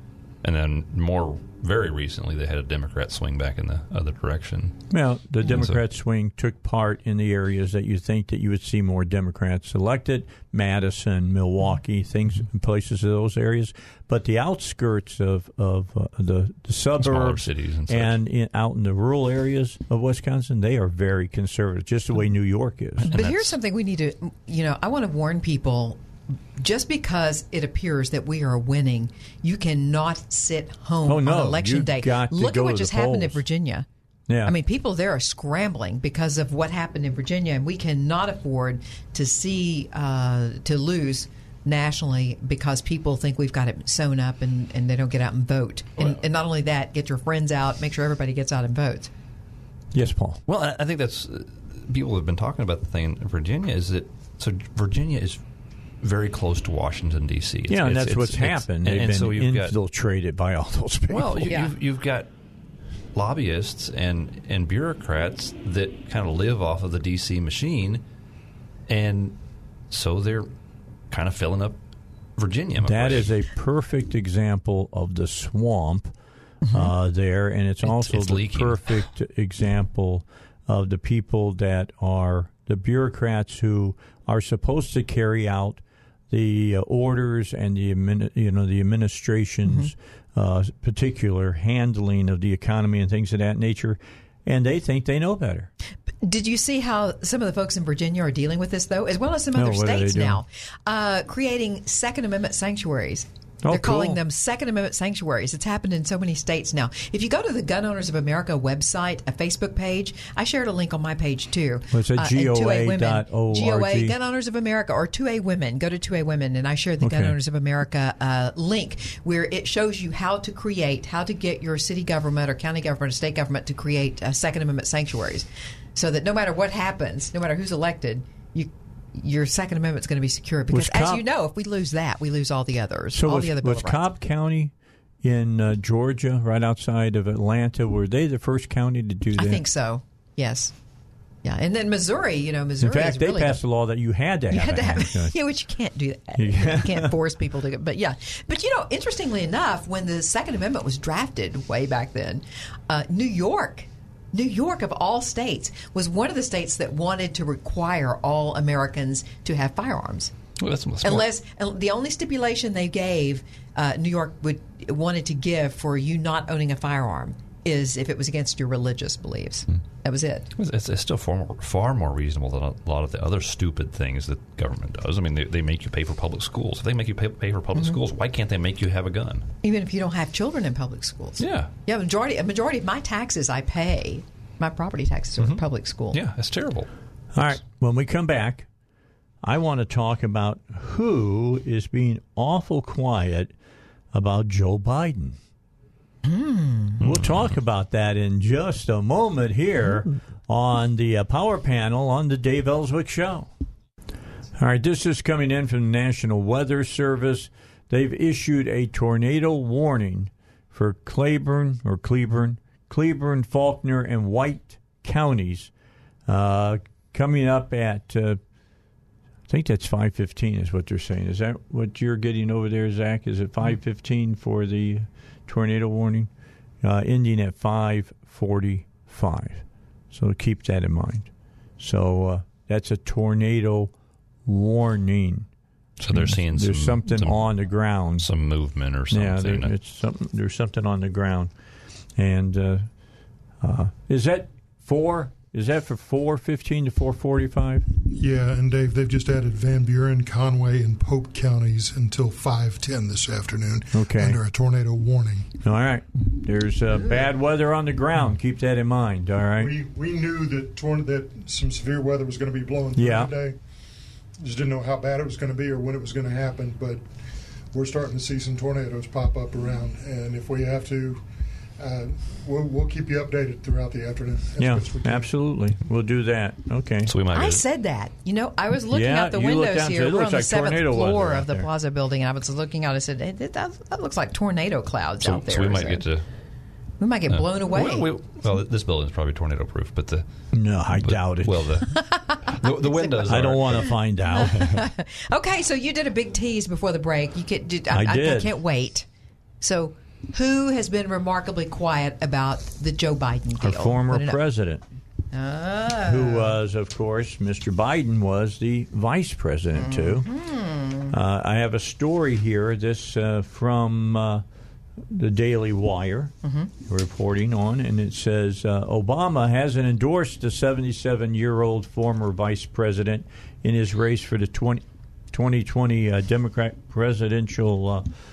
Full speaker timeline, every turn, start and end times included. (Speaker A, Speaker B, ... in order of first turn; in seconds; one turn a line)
Speaker A: 0.4-4.8
Speaker B: 4.9-23.2
Speaker A: 5.4-5.8
Speaker A: 17.0-18.1
Speaker A: 23.0-23.6
Speaker C: 23.1-26.0
Speaker C: 26.6-33.9
Speaker B: 31.0-33.4
Speaker B: 34.3-34.5
Speaker C: 34.4-49.1
Speaker B: 49.9-50.4
Speaker A: 50.5-55.4
Speaker A: 56.0-59.8
Speaker B: 57.7-61.6
Speaker A: 61.1-62.3
Speaker A: 63.1-68.0
Speaker A: 68.9-69.4
Speaker A: 69.9-70.5
Speaker A: 71.1-71.8
Speaker A: 72.4-73.3
Speaker B: 72.8-76.1
Speaker C: 76.6-76.9
Speaker B: 76.7-95.7
Speaker A: 77.8-79.0
Speaker C: 89.7-89.9
Speaker C: 96.2-134.0
Speaker B: 99.5-100.4
Speaker B: 103.6-104.2
Speaker B: 111.9-114.1
Speaker B: 117.0-117.3
Speaker B: 130.7-131.2
Speaker B: 133.1-139.6
Speaker C: 139.4-140.7
Speaker C: 141.4-143.6
Speaker B: 142.8-145.3
Speaker C: 144.5-160.3
Speaker B: 146.4-147.1
Speaker A: 160.6-161.3
Speaker C: 161.0-170.5
Speaker A: 170.5-179.5
Speaker C: 179.6-186.2
Speaker A: 181.4-181.7
Speaker A: 185.4-186.9
Speaker B: 187.3-188.7
Speaker B: 189.4-193.5
Speaker B: 194.1-195.4
Speaker C: 196.2-197.0
Speaker A: 197.0-197.5
Speaker B: 197.0-203.5
Speaker B: 204.6-215.7
Speaker B: 216.3-218.4
Speaker B: 219.5-226.3
Speaker B: 226.8-233.9
Speaker B: 234.4-235.5
Speaker A: 236.0-237.5
Speaker B: 236.1-238.3
Speaker A: 238.2-239.7
Speaker B: 239.1-241.5
Speaker B: 242.2-242.9
Speaker B: 243.6-247.8
Speaker D: 248.1-255.5
Speaker B: 253.9-254.4
Speaker B: 255.6-259.7
Speaker D: 259.5-263.6
Speaker B: 262.9-263.3
Speaker D: 264.4-267.0
Speaker D: 267.7-271.2
Speaker D: 271.8-275.3
Speaker B: 274.6-277.1
Speaker A: 277.1-277.6
Speaker C: 277.3-286.0
Speaker B: 278.9-281.7
Speaker A: 285.2-286.2
Speaker C: 287.0-288.1
Speaker A: 287.3-290.2
Speaker B: 290.5-291.8
Speaker A: 290.9-291.9
Speaker C: 291.8-299.1
Speaker A: 292.5-293.9
Speaker B: 293.3-294.7
Speaker B: 297.9-298.5
Speaker C: 299.6-304.4
Speaker B: 303.6-304.8
Speaker C: 305.3-306.6
Speaker B: 306.0-310.3
Speaker C: 309.7-311.1
Speaker B: 311.1-314.4
Speaker B: 315.1-328.1
Speaker C: 316.4-316.7